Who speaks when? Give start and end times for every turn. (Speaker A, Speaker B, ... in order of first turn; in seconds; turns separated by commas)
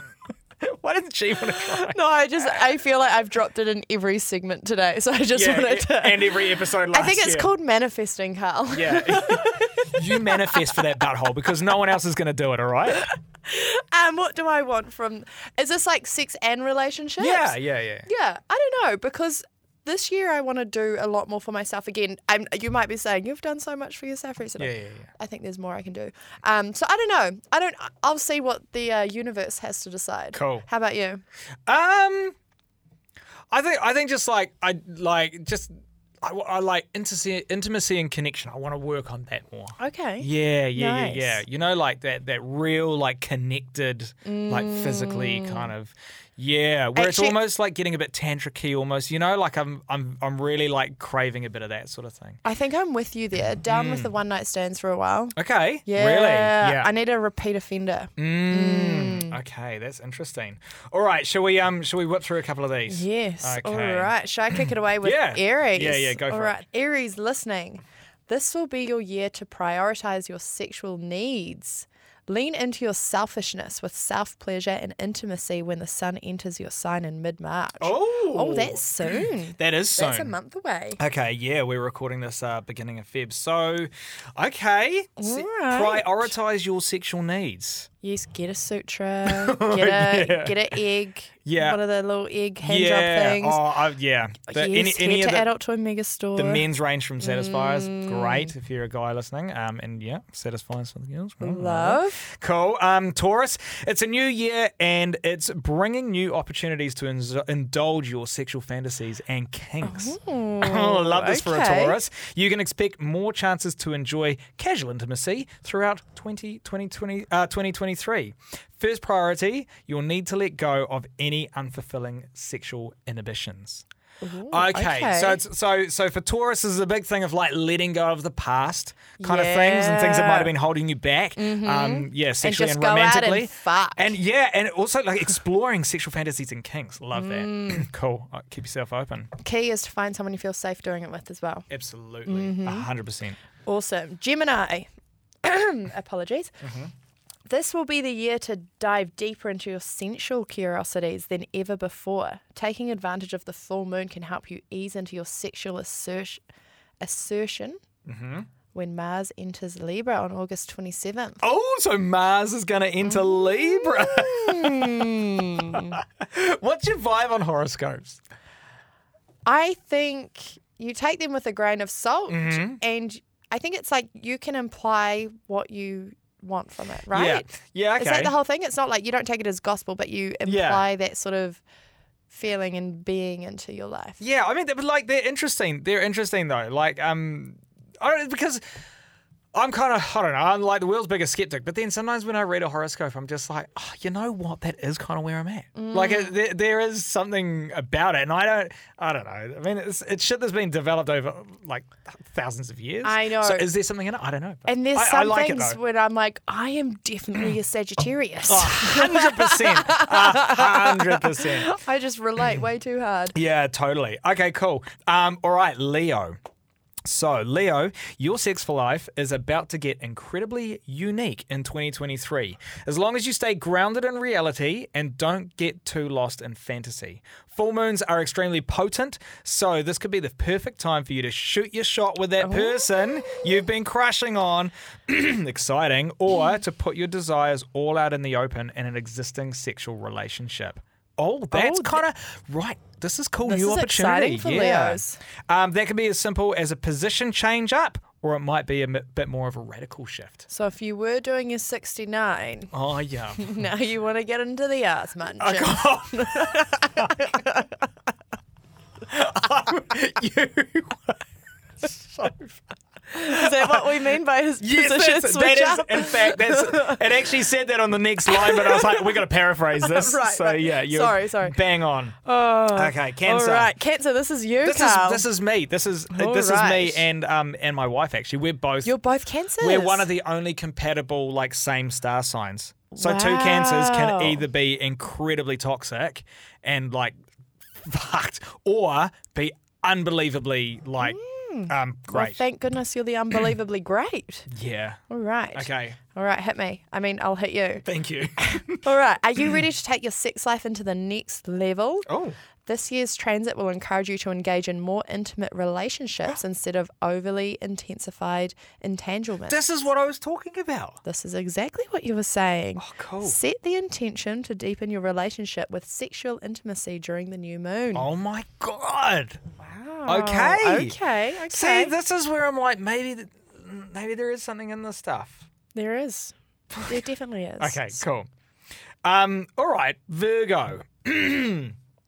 Speaker A: 0.6-2.0, Speaker B: 1.8-10.8, Speaker A: 5.3-7.5, Speaker A: 8.7-13.1, Speaker B: 13.0-17.5, Speaker A: 17.2-18.1, Speaker B: 18.1-31.2, Speaker A: 24.6-25.1, Speaker A: 30.3-30.6, Speaker A: 31.7-32.4, Speaker A: 33.5-52.4, Speaker B: 39.8-41.4, Speaker B: 44.2-45.7, Speaker B: 46.9-47.4, Speaker B: 52.4-59.3, Speaker A: 53.7-54.1, Speaker A: 55.4-56.9, Speaker A: 58.2-66.6, Speaker B: 62.9-81.0, Speaker A: 77.8-80.3, Speaker A: 81.0-87.9, Speaker B: 85.2-86.3, Speaker B: 88.0-93.6, Speaker A: 89.2-90.8, Speaker A: 91.4-91.8, Speaker A: 92.6-95.5, Speaker B: 94.5-96.6, Speaker A: 96.4-123.8, Speaker B: 97.2-98.5, Speaker B: 101.4-102.2, Speaker B: 109.8-112.0, Speaker B: 124.2-125.4, Speaker A: 124.5-139.3, Speaker B: 129.2-130.5, Speaker B: 131.4-134.1, Speaker B: 137.1-137.9, Speaker B: 139.4-141.7, Speaker A: 141.7-143.4, Speaker B: 142.2-142.9, Speaker B: 143.6-144.9, Speaker B: 145.4-146.5, Speaker A: 146.6-146.9, Speaker B: 147.5-156.4, Speaker B: 157.0-157.8, Speaker A: 158.1-158.5, Speaker B: 158.7-161.4, Speaker A: 161.4-168.2, Speaker B: 163.0-166.0, Speaker B: 169.4-181.6, Speaker A: 172.3-172.8, Speaker A: 177.1-178.3, Speaker A: 180.4-180.8, Speaker B: 182.3-184.2, Speaker A: 184.2-188.6, Speaker A: 189.5-205.8, Speaker B: 195.8-196.3, Speaker B: 203.0-203.7, Speaker B: 204.7-213.3, Speaker A: 208.5-211.7, Speaker A: 213.3-216.4, Speaker A: 217.0-250.4, Speaker B: 232.4-232.8, Speaker B: 241.5-242.0, Speaker B: 243.4-245.2, Speaker B: 250.5-252.7, Speaker A: 252.7-253.6, Speaker B: 253.4-257.7, Speaker A: 255.4-257.4, Speaker A: 259.1-261.2, Speaker A: 261.8-262.6, Speaker B: 263.1-267.1, Speaker A: 263.2-263.9, Speaker A: 264.6-272.1, Speaker B: 268.3-269.2, Speaker B: 269.8-271.6, Speaker B: 272.2-275.2, Speaker A: 272.7-273.7, Speaker A: 274.6-278.9, Speaker B: 276.1-277.1, Speaker B: 278.8-280.1, Speaker A: 279.6-287.1, Speaker B: 282.9-284.4, Speaker A: 287.8-292.4, Speaker B: 291.0-294.5, Speaker A: 294.5-295.0, Speaker B: 295.1-297.8, Speaker A: 295.5-296.0, Speaker A: 297.8-298.9, Speaker B: 298.4-302.1, Speaker A: 302.1-302.4, Speaker B: 302.6-309.6, Speaker A: 309.5-311.0, Speaker B: 311.0-318.1, Speaker A: 312.8-313.4, Speaker A: 317.9-319.4, Speaker B: 319.6-321.9, Speaker A: 320.1-321.0, Speaker A: 321.5-325.4, Speaker B: 325.7-326.3, Speaker B: 326.9-328.0, Speaker A: 327.6-328.3, Speaker A: 329.0-331.8